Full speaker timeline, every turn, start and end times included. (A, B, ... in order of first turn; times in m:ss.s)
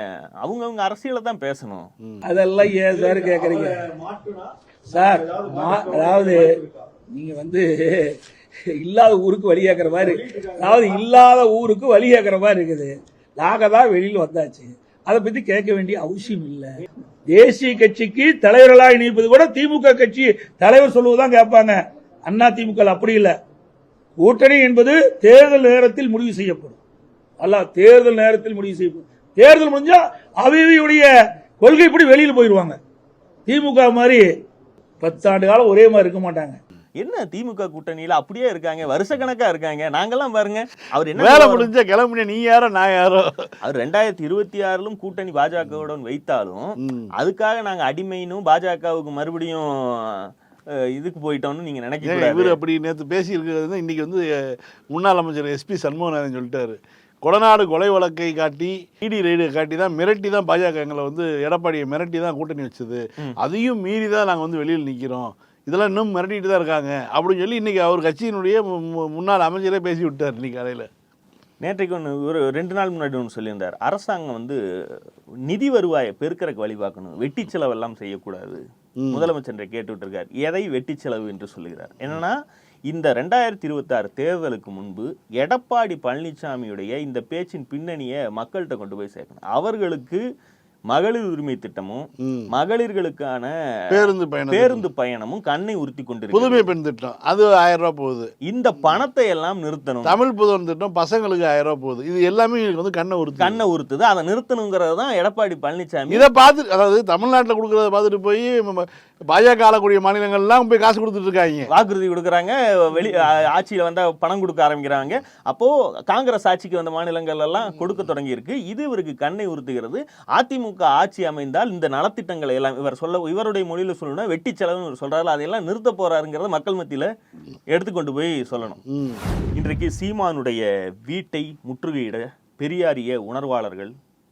0:00.4-0:01.9 A
0:02.2-0:04.0 B
0:04.9-0:06.6 B
0:07.1-0:08.2 B
0:08.7-0:16.8 B
0:17.3-0:23.4 B
0:24.2-0:26.8 B
0:27.4-0:32.8 B
0:33.5-0:34.3 B
0:35.0-0:36.6 B
0:37.0-0:41.7 A
0:41.2-0:43.5 C
0:43.6-0:50.3 A
0:46.8-0:47.1 C
0:51.0-0:52.6 A
0:52.0-1:10.9 C
1:11.6-1:14.6 A
1:15.5-1:18.6 A
1:19.0-1:19.3 C
1:19.1-1:22.4 A
1:22.9-1:30.2 A
1:30.9-1:33.5 A
1:32.2-1:32.5 C
1:33.9-1:34.8 C
1:34.5-1:36.7 A
1:36.3-1:38.3 C
1:38.5-1:40.2 A
1:40.0-1:43.6 C
1:43.4-1:46.3 A
1:46.1-1:51.7 C
1:51.7-2:07.1 A
2:07.7-2:08.8 A
2:08.9-2:09.2 C
2:09.6-2:13.9 A